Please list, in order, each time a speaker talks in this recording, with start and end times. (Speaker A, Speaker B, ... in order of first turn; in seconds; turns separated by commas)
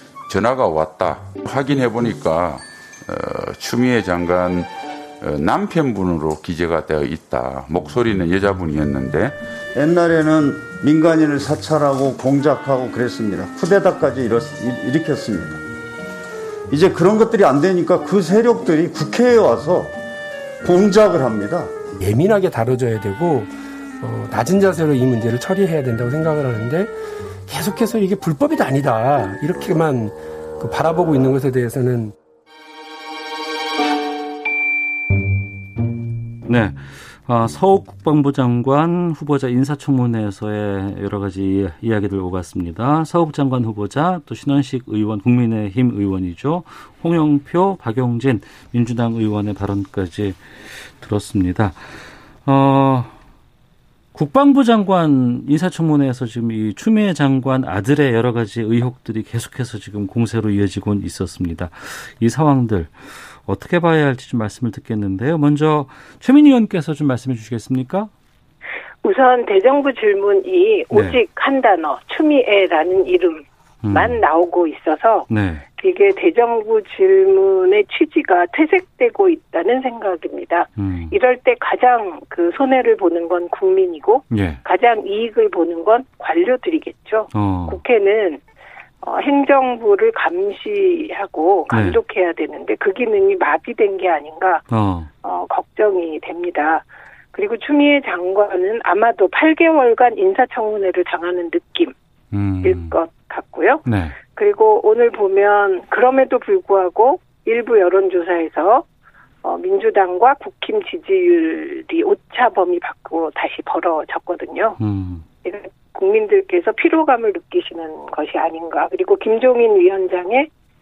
Speaker A: 0.3-9.4, Speaker B: 9.8-15.6, Speaker B: 16.7-19.9, Speaker B: 20.6-21.7, Speaker C: 22.0-26.9, Speaker C: 27.5-32.1, Speaker D: 36.4-53.1, Speaker D: 54.1-68.1, Speaker E: 69.0-88.4, Speaker D: 70.9-71.2, Speaker D: 73.8-74.2, Speaker D: 75.3-75.6, Speaker D: 80.8-81.1, Speaker D: 84.3-84.6, Speaker D: 87.3-87.8, Speaker E: 89.0-94.6, Speaker D: 91.7-92.0, Speaker D: 94.7-95.1, Speaker E: 95.2-101.9, Speaker D: 102.3-102.9, Speaker E: 102.6-108.8, Speaker D: 103.8-104.2, Speaker E: 109.4-114.8, Speaker D: 114.8-115.2, Speaker E: 115.4-120.5